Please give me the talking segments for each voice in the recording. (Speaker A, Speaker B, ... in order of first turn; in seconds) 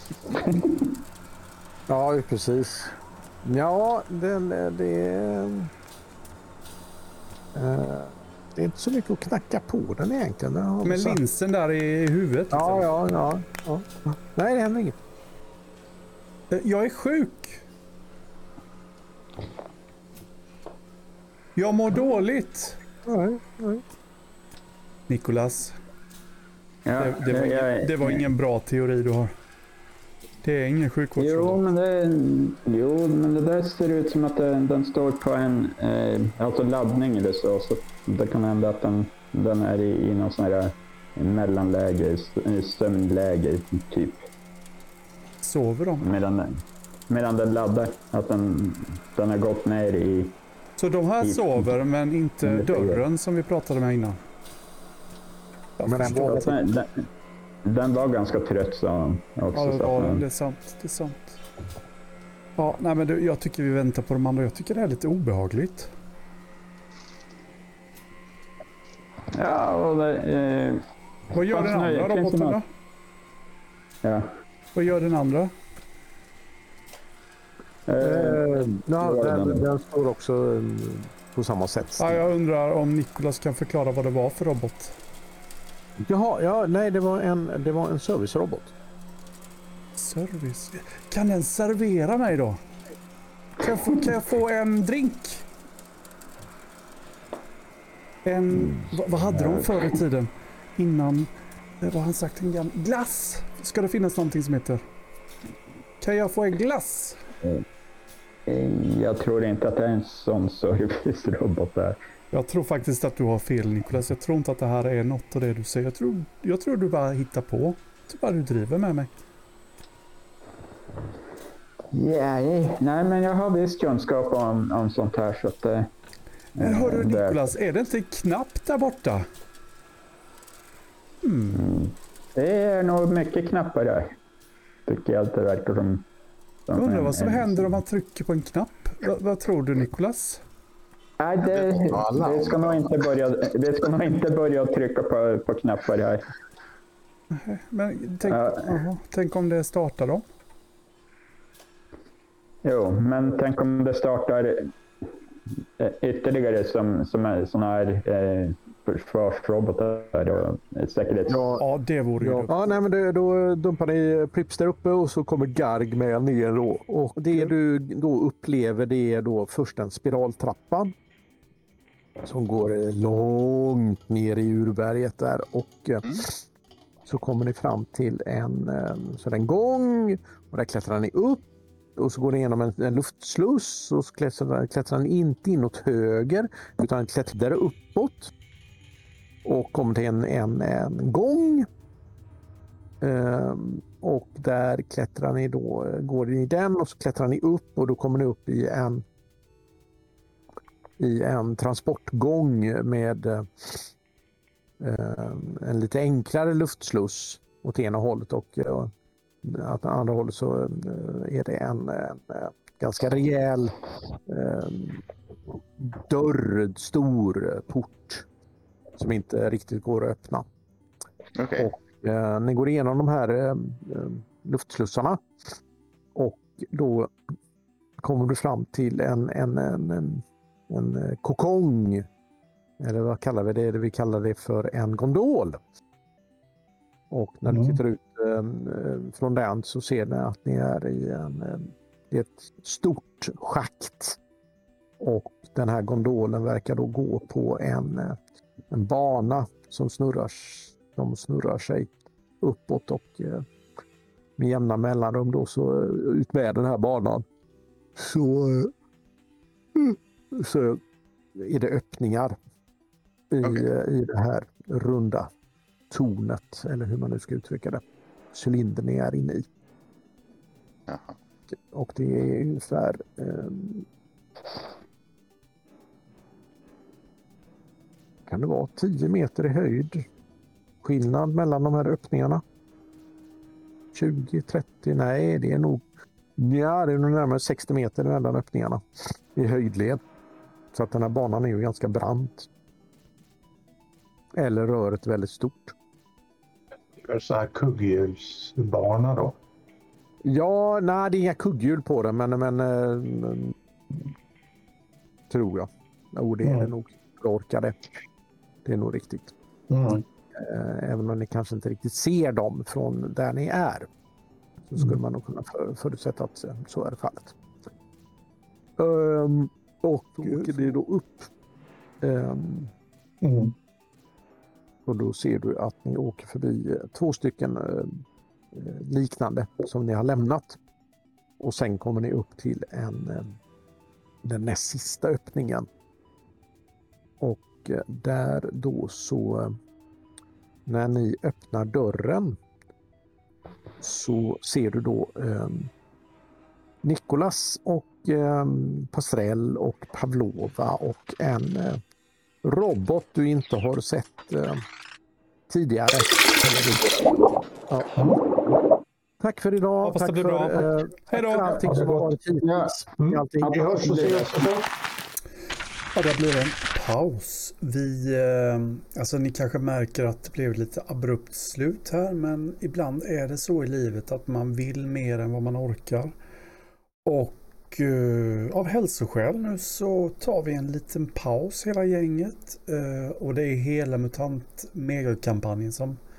Speaker A: 0.3-0.8, 26.8-28.3, 31.2-44.2, 46.0-50.4, 51.2-51.7, 52.4-53.0, 56.1-57.0, 57.6-60.2, 69.3-70.8, 71.3-72.6, 74.0-74.4, 77.9-79.7, 98.5-100.0, 108.5-112.0, 121.9-125.9, 126.5-127.5, 131.5-134.2, 134.9-136.1, 136.7-137.7, 141.2-146.2, 148.2-148.8, 152.6-154.7, 155.8-161.6, 362.4-362.8, 363.4-364.4
Speaker B: 1.9-5.7, 7.5-11.2, 12.5-14.9, 23.0-23.8, 55.8-56.6, 78.0-82.2, 86.0-88.7, 161.3-161.6, 162.2-170.9, 172.2-176.4, 177.1-181.4, 181.9-188.3, 189.4-191.7, 193.0-199.0, 201.0-203.9, 204.8-208.9, 209.4-213.7, 214.2-218.2, 219.0-220.5, 221.6-225.2, 226.1-227.1, 228.0-232.1, 232.8-235.6, 237.1-244.2, 245.0-248.2, 248.7-251.9, 252.4-253.4, 254.4-257.2, 257.9-258.7, 259.7-260.8, 261.3-262.4, 263.3-265.3, 265.9-269.5, 271.5-273.9, 278.3-280.1, 280.8-282.4, 283.9-285.8, 286.4-288.8, 289.3-290.0, 290.7-292.5, 294.4-295.7, 300.2-303.5, 305.3-307.8, 308.6-309.3, 310.3-313.9, 314.7-317.4, 318.8-321.3, 322.0-322.7, 324.9-328.0, 328.5-330.6, 331.4-333.4, 334.2-335.7, 337.2-339.6, 340.6-342.4, 343.8-345.7, 346.8-351.8, 352.4-354.6, 355.5-357.1, 357.7-358.0, 359.2-364.1
Speaker C: 10.8-12.9, 16.5-17.6, 21.6-22.8, 25.1-25.8, 27.0-29.3, 30.4-31.6, 45.4-46.1, 50.8-54.2, 55.8-56.5, 59.5-61.4, 62.6-65.9, 71.3-72.6, 74.7-75.5, 82.0-84.9, 90.0-92.6, 93.6-95.5, 98.2-104.8, 106.0-107.2, 112.3-119.1, 126.6-129.2, 131.2-131.7, 136.7-140.4, 147.3-150.2, 161.6-162.5, 359.8-361.6, 365.9-376.1, 377.1-386.0
Speaker D: 141.4-143.0, 221.4-221.7, 270.9-271.1
Speaker E: 237.5-237.8, 297.0-299.3, 306.4-306.7, 309.7-310.0, 323.2-323.5, 361.5-362.1, 363.0-364.7